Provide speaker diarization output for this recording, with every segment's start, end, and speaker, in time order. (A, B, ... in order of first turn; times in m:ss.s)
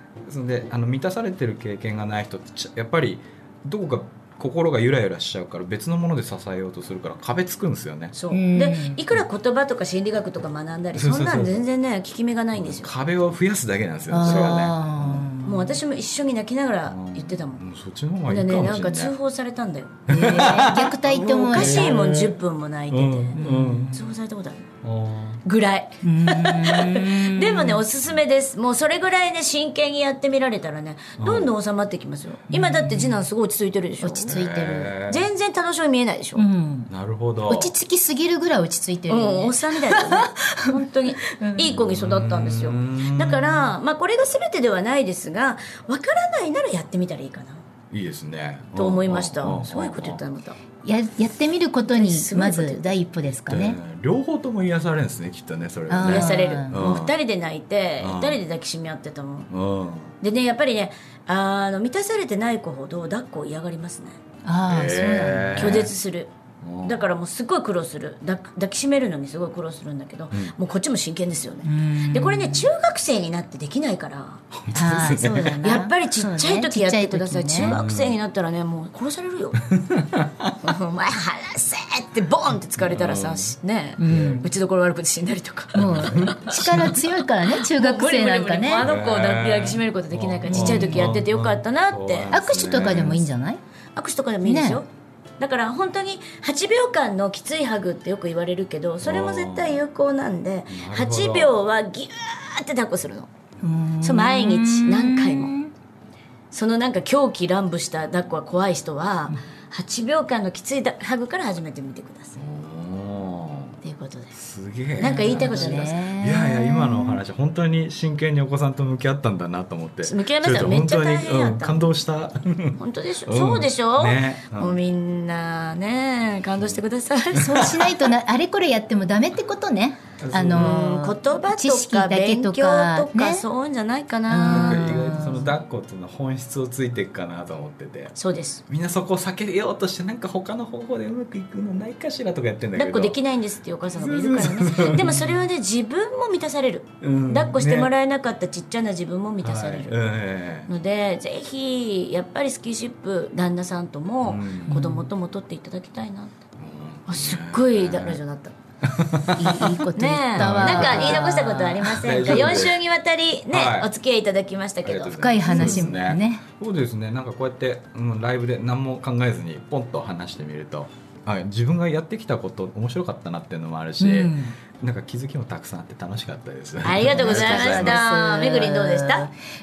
0:00.3-0:08.2 A
0:08.1-0:12.9 B
0:08.3-0:09.0 C
0:10.9-0:11.6 A
0:12.6-0:15.3 A
0:14.1-0:15.8 C
0:14.3-0:14.6 B
0:15.4-0:17.6 B
0:16.9-0:19.2 A
0:18.3-0:23.4 B
0:20.1-0:22.4 A
0:20.1-0:22.0 C
0:22.9-0:24.0 A
0:23.4-0:24.2 C
0:23.9-0:24.7 B
0:24.8-0:25.4 A
0:25.4-0:34.4 B
0:26.0-0:27.8 C
0:31.2-0:31.5 A
0:32.5-0:33.2 C
0:34.0-0:35.0 C
0:34.3-0:35.3 A
0:35.1-0:36.4 B
0:36.4-0:36.9 C
0:36.9-0:37.8 A
0:37.5-0:40.7 C
0:39.1-0:47.6 B
0:41.3-0:41.8 C
0:41.8-0:43.7 A
0:47.9-0:50.2 A
0:48.8-0:50.6 B
0:50.8-0:53.8 C
0:51.9-0:53.0 B
0:53.5-0:57.2 A
0:55.9-0:56.9 C
0:56.0-0:59.5 B
0:58.0-0:58.4 A
0:59.5-1:00.2 A
1:00.2-1:04.2 B
1:04.4-1:05.9 C
1:04.7-1:05.9 A
1:05.6-1:19.6 B
1:06.6-1:07.0 A
1:11.6-1:12.7 C
1:14.6-1:15.6 A
1:14.7-1:17.8 C
1:17.6-1:18.2 A
1:19.7-1:20.6 A
1:20.6-1:33.2 B
1:22.8-1:24.4 A
1:24.0-1:24.5 C
1:25.8-1:28.9 C
1:25.8-1:26.9 A
1:28.8-1:33.3 A
1:30.5-1:31.2 C
1:32.3-1:33.6 C
1:34.0-1:34.9 B
1:34.4-1:34.8 C
1:35.4-1:43.3 B
1:39.0-1:39.8 A
1:40.7-1:41.6 A
1:43.6-1:45.7 C
1:44.0-1:45.5 B
1:46.5-1:52.4 B
1:52.4-1:53.8 A
1:53.8-1:54.4 B
1:54.3-2:04.8 A
1:55.0-1:56.0 B
1:55.0-1:57.2 C
2:00.0-2:01.9 B
2:02.8-2:07.7 B
2:07.3-2:13.4 C
2:07.4-2:07.9 A
2:10.2-2:10.8 A
2:10.5-2:15.2 B
2:14.3-2:15.5 C
2:14.4-2:18.1 A
2:18.1-2:18.6 B
2:18.7-2:23.2 A
2:22.8-2:30.0 B
2:23.9-2:25.4 A
2:27.0-2:27.9 A
2:29.4-2:30.7 A
2:30.7-2:36.4 B
2:34.2-2:34.9 A
2:34.7-2:35.1 C
2:36.6-2:38.2 A
2:37.1-2:38.5 B
2:38.8-2:39.7 A
2:39.3-2:42.6 C
2:40.0-2:46.0 B
2:40.4-2:42.8 A
2:43.5-2:43.9 A
2:44.8-2:58.0 A
2:45.2-2:46.4 C
2:54.0-2:54.6 C
2:56.8-2:59.3 B
2:57.1-2:59.3 C